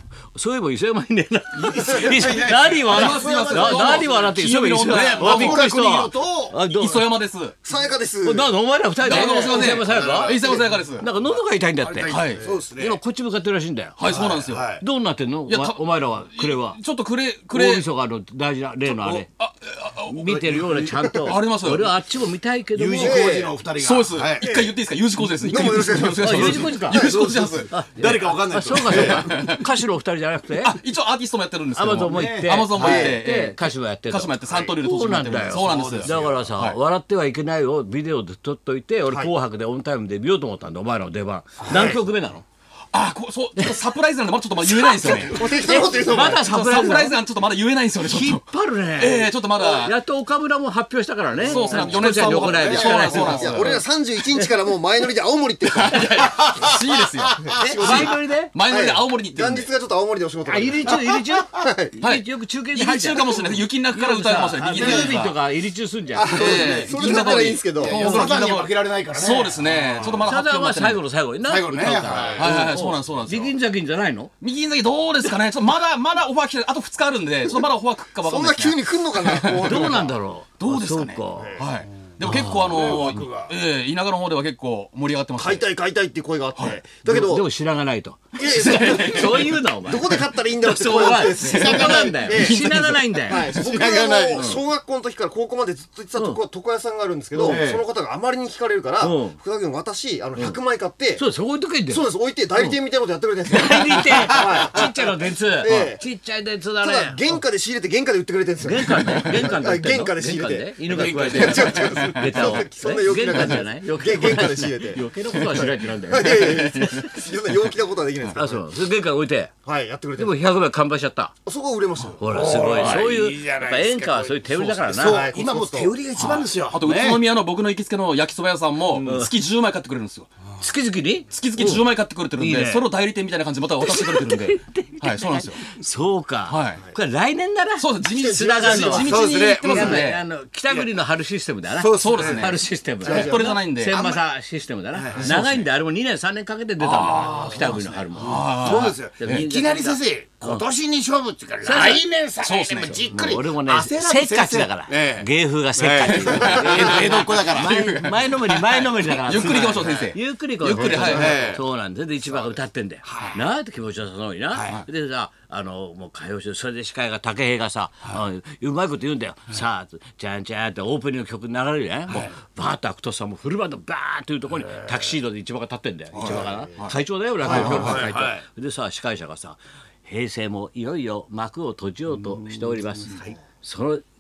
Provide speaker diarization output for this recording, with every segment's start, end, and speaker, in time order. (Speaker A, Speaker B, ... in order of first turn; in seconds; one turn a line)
Speaker A: 0.3-7.1
Speaker B: 1.6-6.6
Speaker C: 2.9-5.6
Speaker C: 6.6-7.5
Speaker D: 7.6-8.6
Speaker A: 8.2-10.4
Speaker C: 9.0-11.1
Speaker B: 9.1-11.3
Speaker A: 11.0-12.2
Speaker B: 11.8-13.0
Speaker C: 12.1-12.5
Speaker A: 12.8-14.1
Speaker C: 14.0-14.7
Speaker B: 14.0-14.8
Speaker A: 14.8-16.8
Speaker C: 15.5-17.9
Speaker A: 17.5-19.3
Speaker C: 19.3-20.2
Speaker A: 20.1-23.5
Speaker B: 20.2-21.1
Speaker C: 21.3-21.9
Speaker B: 22.8-24.7
Speaker D: 23.0-23.6
Speaker C: 23.8-27.7
Speaker D: 24.4-26.9
Speaker A: 26.2-27.1
Speaker B: 26.5-29.4
Speaker A: 27.7-30.8
Speaker C: 29.2-29.6
Speaker C: 30.6-36.8
Speaker A: 31.8-42.4
Speaker B: 32.0-33.1
Speaker D: 32.7-33.2
Speaker B: 35.5-36.5
Speaker B: 41.6-42.0
Speaker C: 42.9-45.4
Speaker A: 44.9-47.2
Speaker B: 45.0-46.0
Speaker D: 45.1-46.5
Speaker C: 46.3-50.0
Speaker A: 48.0-53.7
Speaker C: 51.4-53.9
Speaker D: 51.7-56.8
Speaker C: 55.7-59.7
Speaker B: 56.4-56.7
Speaker B: 57.4-57.7
Speaker D: 57.4-62.0
Speaker A: 57.7-58.5
Speaker A: 60.4-66.5
Speaker C: 62.0-65.2
Speaker B: 64.6-65.4
Speaker D: 66.1-68.3
Speaker B: 66.2-67.2
Speaker C: 66.3-71.0
Speaker B: 67.8-70.3
Speaker A: 70.2-74.3
Speaker B: 71.5-72.7
Speaker C: 72.4-73.5
Speaker C: 74.4-79.9
Speaker D: 78.2-80.2
Speaker A: 79.6-81.6
Speaker C: 80.6-85.7
Speaker A: 82.2-83.0
Speaker B: 82.6-83.5
Speaker D: 85.3-87.5
Speaker C: 86.6-86.8
Speaker A: 87.1-94.6
Speaker D: 88.4-92.7
Speaker C: 88.6-89.5
Speaker C: 90.8-93.0
Speaker D: 93.2-101.2
Speaker B: 93.7-94.5
Speaker A: 97.4-97.6
Speaker B: 97.4-97.8
Speaker A: 99.0-99.4
Speaker A: 101.2-102.0
Speaker D: 101.9-106.0
Speaker A: 103.5-107.4
Speaker D: 106.8-118.7
Speaker A: 108.6-116.8
Speaker C: 111.0-112.3
Speaker C: 116.3-117.1
Speaker A: 118.3-119.5
Speaker D: 119.7-120.4
Speaker A: 120.2-121.3
Speaker D: 121.5-122.2
Speaker A: 122.2-125.2
Speaker B: 122.2-127.3
Speaker D: 125.0-126.0
Speaker C: 126.3-130.3
Speaker A: 129.0-129.3
Speaker A: 130.6-132.9
Speaker C: 131.3-135.7
Speaker A: 133.8-150.7
Speaker C: 136.5-136.9
Speaker C: 137.8-140.2
Speaker D: 138.1-139.4
Speaker B: 138.9-140.2
Speaker B: 141.7-144.2
Speaker C: 141.9-144.0
Speaker D: 143.1-143.6
Speaker B: 144.9-145.4
Speaker C: 146.8-149.5
Speaker B: 147.0-157.9
Speaker A: 151.6-184.1
Speaker C: 152.5-152.9
Speaker C: 156.0-156.9
Speaker C: 157.6-161.4
Speaker B: 159.5-160.1
Speaker B: 160.7-161.6
Speaker B: 162.3-163.4
Speaker B: 164.5-164.8
Speaker B: 174.7-175.0
Speaker B: 176.1-176.7
Speaker C: 176.2-176.9
Speaker B: 177.4-178.4
Speaker C: 177.6-177.9
Speaker B: 183.0-183.3